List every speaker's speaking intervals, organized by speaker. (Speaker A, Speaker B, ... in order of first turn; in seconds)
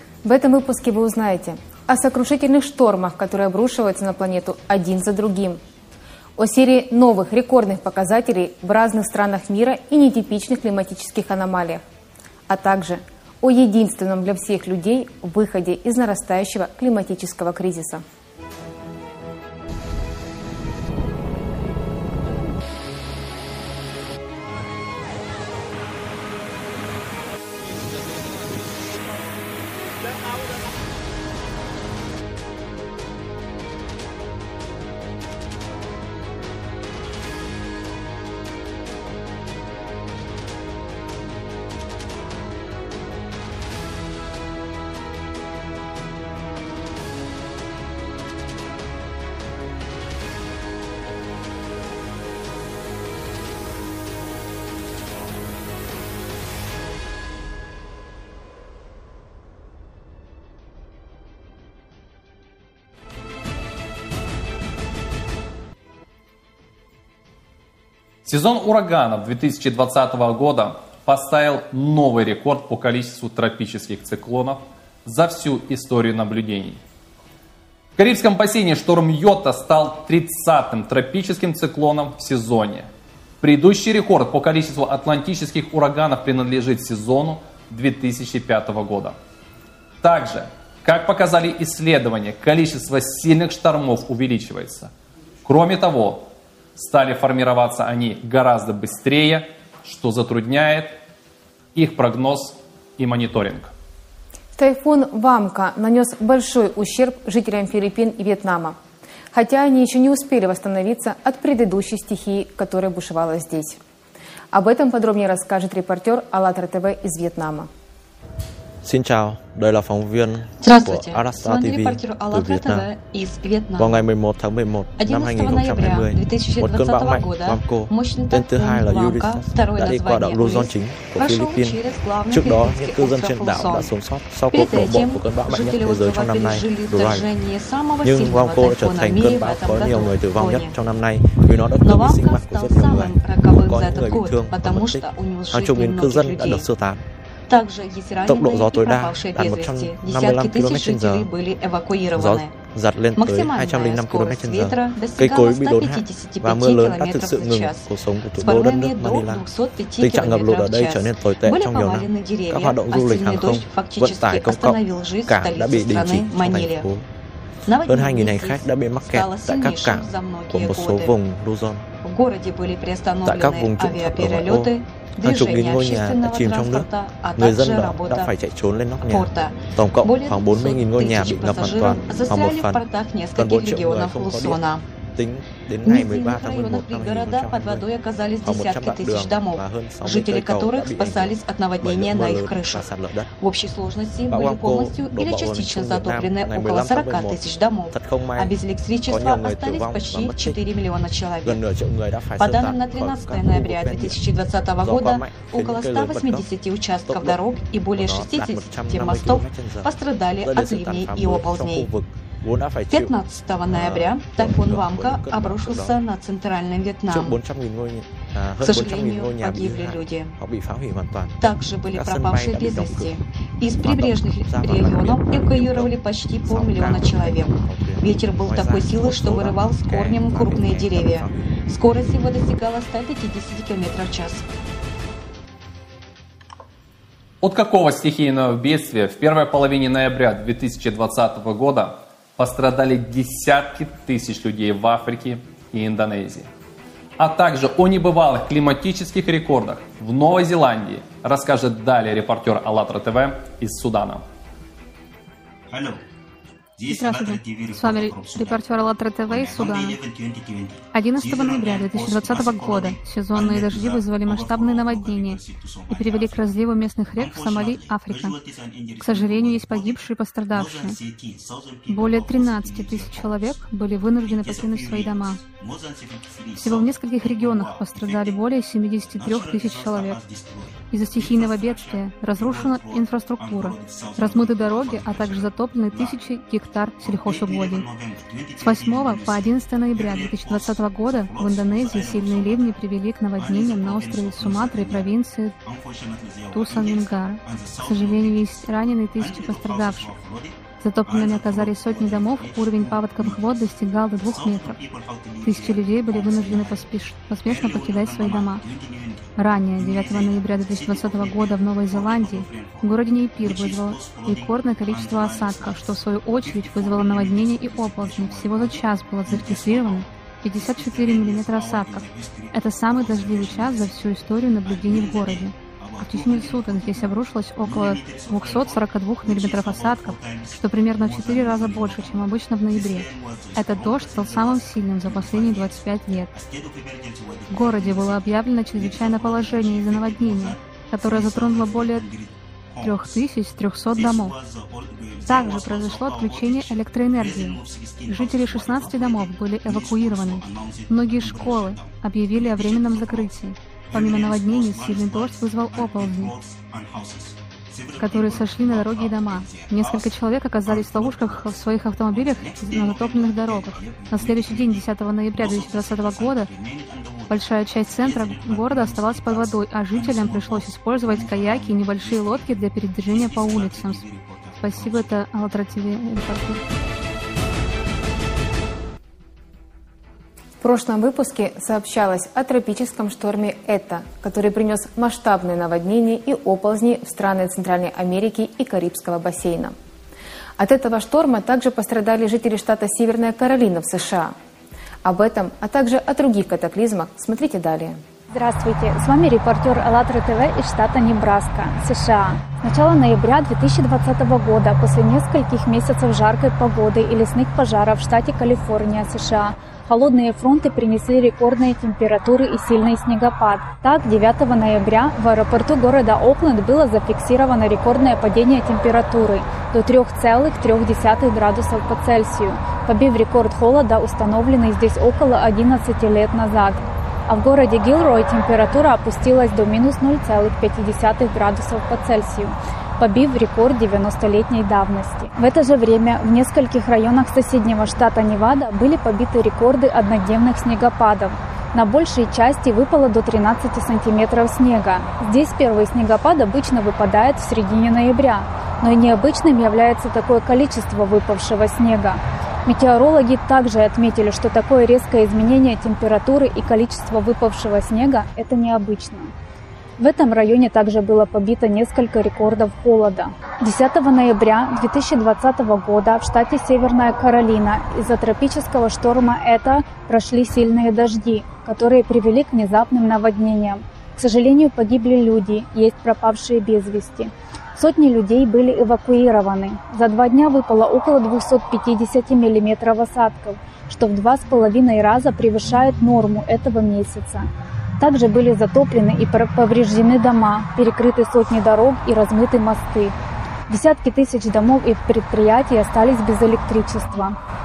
Speaker A: 0.2-5.6, 6.4-11.8, 12.5-18.0, 104.5-108.8, 109.3-113.8, 114.5-117.7, 380.6-389.8, 390.6-394.4, 395.0-398.0
Speaker B: 68.2-76.8, 78.0-82.9, 83.4-89.2, 90.0-94.9, 95.4-101.0, 101.8-103.7, 237.4-246.5, 247.2-254.2
Speaker C: 118.8-122.9, 123.8-137.3, 138.0-147.0, 148.3-151.3, 152.1-167.1, 167.9-171.8, 173.2-182.8, 183.3-187.9, 188.4-193.3, 194.3-200.6, 201.4-204.2, 204.8-206.5, 207.1-207.4, 207.9-213.2, 213.7-216.0, 217.1-223.2, 223.8-231.7
Speaker D: 120.6-124.0, 125.0-133.9, 134.5-140.8, 141.8-146.7, 147.5-152.6, 153.2-157.9, 158.4-166.9, 167.7-171.1, 172.0-178.3, 179.0-184.8, 185.8-201.6, 202.4-211.9, 212.9-217.4, 218.6-220.4, 221.4-234.5
Speaker E: 256.9-260.0, 260.9-268.4, 269.0-271.0, 271.9-275.4, 276.6-280.2, 280.9-287.9, 288.6-295.6, 296.5-300.2, 300.8-304.8, 305.4-308.7, 309.4-336.3, 337.5-342.1, 342.8-344.4, 345.2-356.4, 358.0-366.5, 367.3-376.6
Speaker F: 398.3-459.3, 460.0-493.1, 493.7-497.4